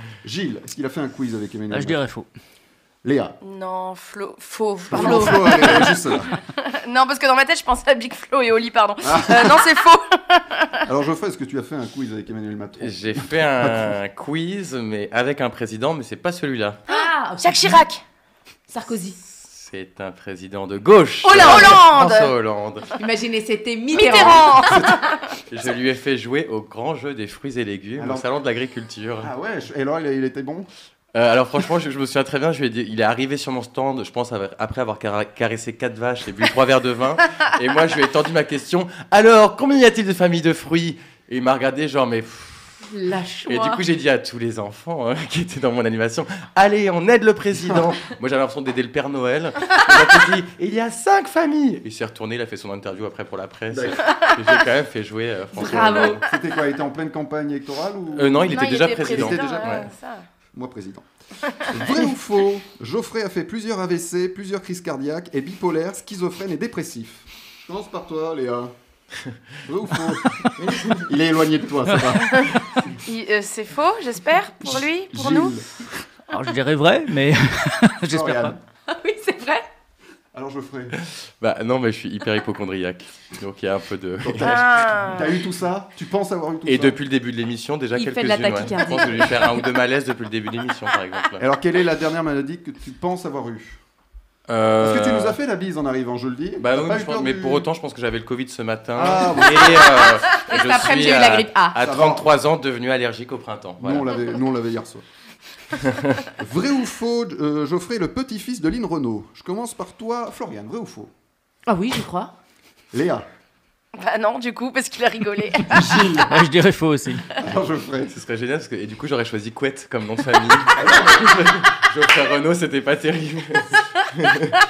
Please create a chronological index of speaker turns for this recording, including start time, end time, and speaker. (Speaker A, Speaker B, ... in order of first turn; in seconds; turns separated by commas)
Speaker A: 0.2-2.0, Speaker B: 1.7-2.3, Speaker A: 3.0-3.4, Speaker C: 3.4-10.8, Speaker A: 4.9-6.3, Speaker D: 4.9-5.6, Speaker A: 9.0-9.7, Speaker A: 10.9-14.0, Speaker E: 12.8-16.8, Speaker D: 16.9-17.8, Speaker C: 16.9-18.0, Speaker D: 18.7-19.2, Speaker E: 19.4-22.9, Speaker C: 21.2-22.3, Speaker D: 21.3-21.7, Speaker D: 23.0-24.5, Speaker C: 23.9-25.0, Speaker A: 24.4-25.0, Speaker E: 25.5-29.3, Speaker A: 28.0-28.3, Speaker A: 29.2-30.7, Speaker E: 31.1-42.8, Speaker D: 42.9-43.8, Speaker E: 43.5-56.2, Speaker A: 47.6-47.9, Speaker A: 53.7-54.0, Speaker D: 55.5-56.2, Speaker A: 55.6-59.9, Speaker E: 58.1-59.9, Speaker C: 58.5-60.2, Speaker A: 60.5-61.1, Speaker A: 61.7-68.7, Speaker A: 69.7-72.5, Speaker C: 73.0-75.5, Speaker A: 74.6-75.8, Speaker B: 76.3-78.6, Speaker A: 78.1-78.6, Speaker D: 78.9-79.7, Speaker A: 80.3-81.0, Speaker E: 81.0-84.8, Speaker A: 84.2-87.0, Speaker C: 84.4-85.2, Speaker E: 86.7-91.4, Speaker D: 88.0-89.4, Speaker A: 91.4-93.8, Speaker E: 94.5-95.4, Speaker A: 94.8-97.7, Speaker E: 96.6-104.1, Speaker A: 99.0-100.1, Speaker D: 100.3-101.8, Speaker A: 101.8-102.3, Speaker A: 103.8-105.0, Speaker A: 106.4-111.1, Speaker D: 111.7-112.3, Speaker A: 112.9-113.3, Speaker C: 114.0-116.1, Speaker A: 115.7-116.3, Speaker B: 116.3-117.2, Speaker A: 117.4-118.2, Speaker E: 118.1-124.6, Speaker A: 120.7-121.6